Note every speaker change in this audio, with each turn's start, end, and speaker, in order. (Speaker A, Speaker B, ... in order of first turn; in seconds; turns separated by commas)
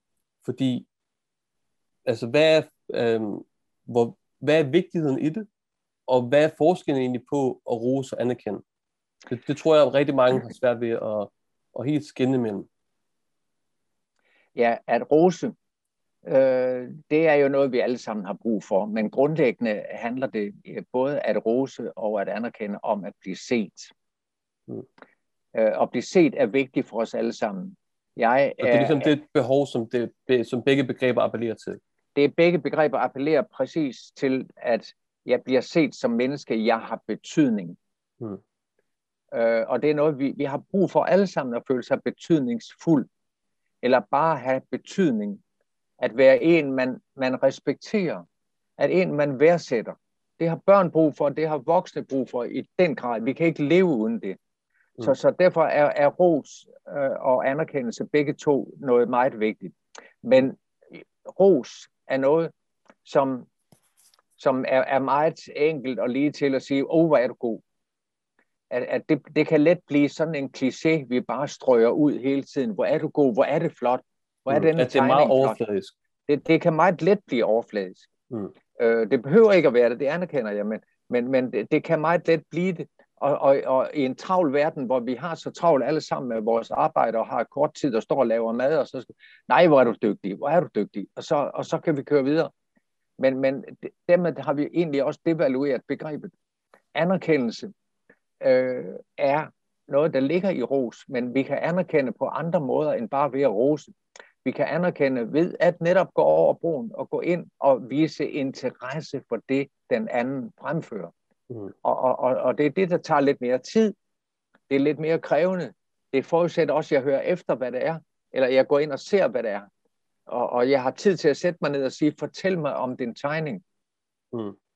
Speaker A: 0.4-0.9, Speaker A: 2.0-5.5, Speaker A: 6.1-8.6, Speaker A: 9.3-12.7, Speaker B: 14.6-15.5, Speaker B: 16.2-23.9, Speaker B: 25.5-29.1, Speaker A: 28.6-31.8, Speaker B: 32.1-37.8, Speaker B: 39.3-43.1, Speaker B: 43.8-45.4, Speaker B: 46.0-48.2, Speaker B: 48.8-54.4, Speaker B: 55.0-60.6, Speaker B: 61.2-62.5, Speaker B: 63.0-63.5, Speaker B: 64.4-67.6, Speaker B: 68.7-75.6, Speaker A: 74.5-75.9, Speaker B: 76.3-78.1, Speaker B: 78.8-92.5, Speaker B: 93.2-96.3, Speaker B: 96.9-97.7, Speaker B: 98.4-103.9, Speaker B: 104.4-111.1, Speaker B: 111.8-113.9, Speaker B: 114.7-119.7, Speaker B: 120.3-123.6